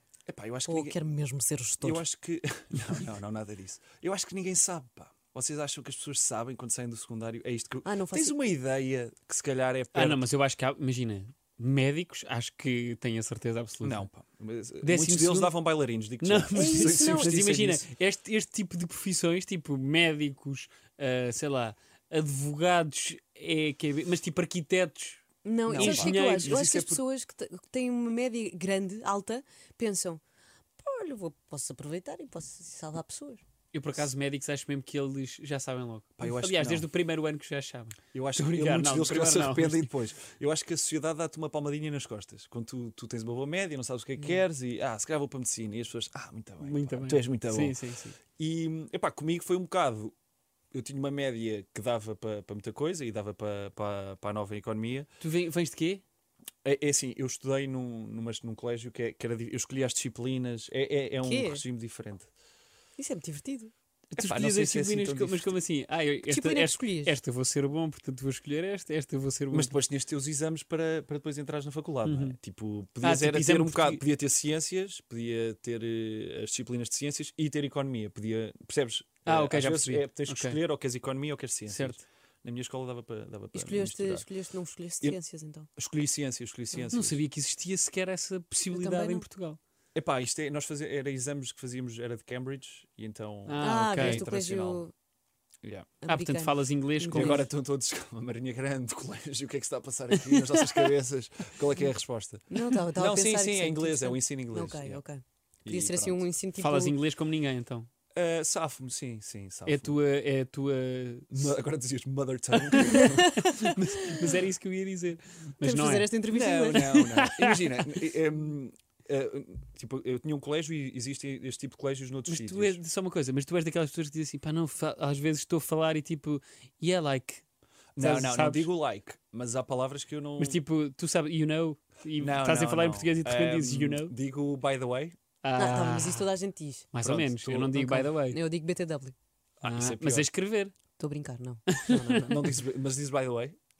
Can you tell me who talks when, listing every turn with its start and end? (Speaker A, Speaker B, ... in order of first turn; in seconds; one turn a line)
Speaker A: 0.3-1.0
Speaker B: 0.7-2.0
Speaker A: 1.8-10.2
Speaker B: 7.8-8.3
Speaker C: 9.9-14.1
Speaker A: 13.8-17.9
Speaker C: 14.8-15.5
Speaker C: 16.2-26.7
Speaker B: 16.5-17.4
Speaker B: 25.4-30.2
Speaker A: 25.7-27.0
Speaker B: 30.8-33.4
Speaker C: 33.7-39.9
Speaker A: 36.2-36.9
Speaker A: 38.1-47.8
Speaker C: 46.6-48.2
Speaker A: 48.4-50.1
Speaker A: 50.7-55.1
Speaker C: 55.2-56.0
Speaker A: 56.6-62.3
Speaker B: 61.2-61.6
Speaker B: 63.0-63.7
Speaker C: 64.1-69.8
Speaker A: 64.2-65.5
Speaker B: 66.3-67.1
Speaker A: 69.5-84.3
Speaker C: 72.0-72.4
Speaker C: 73.0-74.0
Speaker C: 79.2-80.6
Speaker C: 81.7-82.0
Speaker B: 83.5-85.7
Speaker A: 85.8-87.2
Speaker C: 86.9-89.6
Speaker B: 88.7-89.2
Speaker A: 89.9-94.8
Speaker C: 93.5-94.2
Speaker B: 93.6-94.9
Speaker A: 95.6-95.9
Speaker B: 96.0-97.4
Speaker C: 96.1-97.5
Speaker A: 97.1-105.0
Speaker C: 100.3-100.6
Speaker B: 102.5-107.0
Speaker A: 105.6-106.2
Speaker C: 106.6-107.9
Speaker A: 108.1-110.0
Speaker C: 109.7-111.5
Speaker A: 111.3-113.3
Speaker C: 112.7-116.1
Speaker B: 112.8-114.3
Speaker B: 115.6-117.0
Speaker A: 116.3-122.8
Speaker C: 116.7-117.8
Speaker C: 122.3-127.4
Speaker A: 127.9-130.6
Speaker C: 128.0-128.7
Speaker C: 130.4-134.1
Speaker A: 132.2-135.2
Speaker C: 135.4-136.2
Speaker B: 135.6-136.9
Speaker C: 136.9-138.4
Speaker A: 137.0-137.9
Speaker B: 137.8-139.1
Speaker A: 139.6-140.3
Speaker C: 139.6-140.7
Speaker B: 141.0-142.3
Speaker C: 141.7-142.3
Speaker A: 142.1-143.6